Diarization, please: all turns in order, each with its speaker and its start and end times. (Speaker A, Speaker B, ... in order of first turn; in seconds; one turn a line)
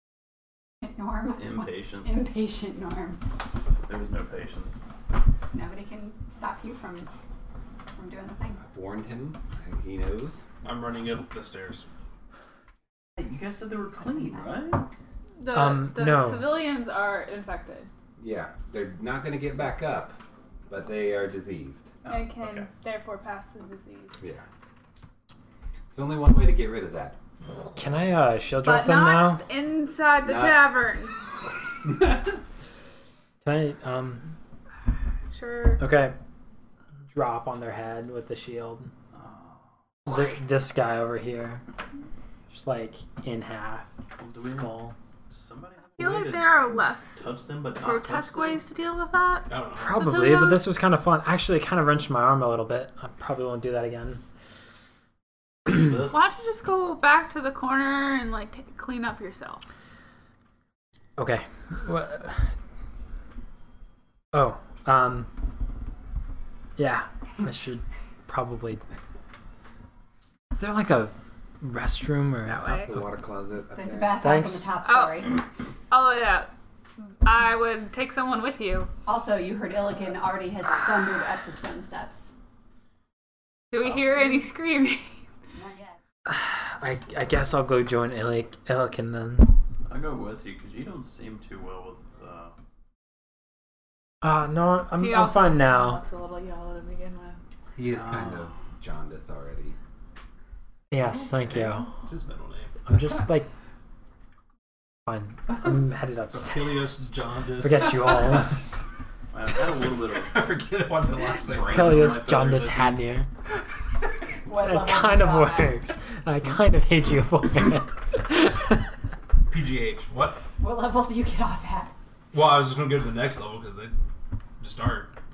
Speaker A: 0.8-3.2
Speaker B: 1.4-2.1
Speaker B: 3.9-4.8
Speaker A: 5.5-7.1
Speaker A: 7.9-8.6
Speaker C: 8.6-10.4
Speaker D: 10.6-11.9
Speaker B: 13.2-14.9
Speaker E: 15.4-17.9
Speaker F: 15.5-16.5
Speaker C: 18.2-20.1
Speaker C: 20.7-21.9
Speaker B: 22.0-22.7
Speaker E: 22.1-24.2
Speaker C: 24.2-24.4
Speaker C: 25.9-27.2
Speaker F: 27.8-29.4
Speaker E: 28.6-31.1
Speaker C: 30.2-30.7
Speaker C: 31.8-32.2
Speaker F: 33.4-34.3
Speaker E: 35.3-35.8
Speaker F: 35.8-36.1
Speaker F: 37.1-38.9
Speaker B: 39.1-39.7
Speaker F: 40.0-41.6
Speaker F: 42.5-44.9
Speaker B: 44.2-48.6
Speaker E: 46.0-47.2
Speaker E: 47.8-50.7
Speaker D: 49.5-50.1
Speaker F: 49.8-54.2
Speaker B: 55.7-56.2
Speaker E: 56.0-59.6
Speaker F: 61.2-62.5
Speaker F: 64.3-65.3
Speaker F: 66.8-68.8
Speaker F: 70.5-73.0
Speaker E: 72.5-72.9
Speaker C: 72.7-74.2
Speaker A: 73.7-75.4
Speaker F: 74.2-74.7
Speaker E: 74.8-76.5
Speaker E: 77.2-78.9
Speaker A: 79.0-82.3
Speaker E: 83.7-85.2
Speaker A: 85.5-86.0
Speaker F: 86.2-89.5
Speaker B: 89.9-92.5
Speaker F: 94.2-96.0
Speaker E: 95.0-97.4
Speaker C: 97.7-99.8
Speaker B: 97.9-98.5
Speaker F: 100.9-101.9
Speaker D: 101.7-102.9
Speaker F: 102.8-103.5
Speaker F: 105.0-107.0
Speaker D: 106.3-108.3
Speaker F: 107.5-108.6
Speaker B: 109.3-110.4
Speaker D: 110.2-112.3
Speaker B: 111.4-113.0
Speaker F: 111.6-113.3
Speaker A: 114.5-115.8
Speaker F: 114.5-118.9
Speaker D: 119.5-120.4
Speaker A: 120.6-121.9
Speaker D: 122.3-123.9
Speaker D: 124.6-125.1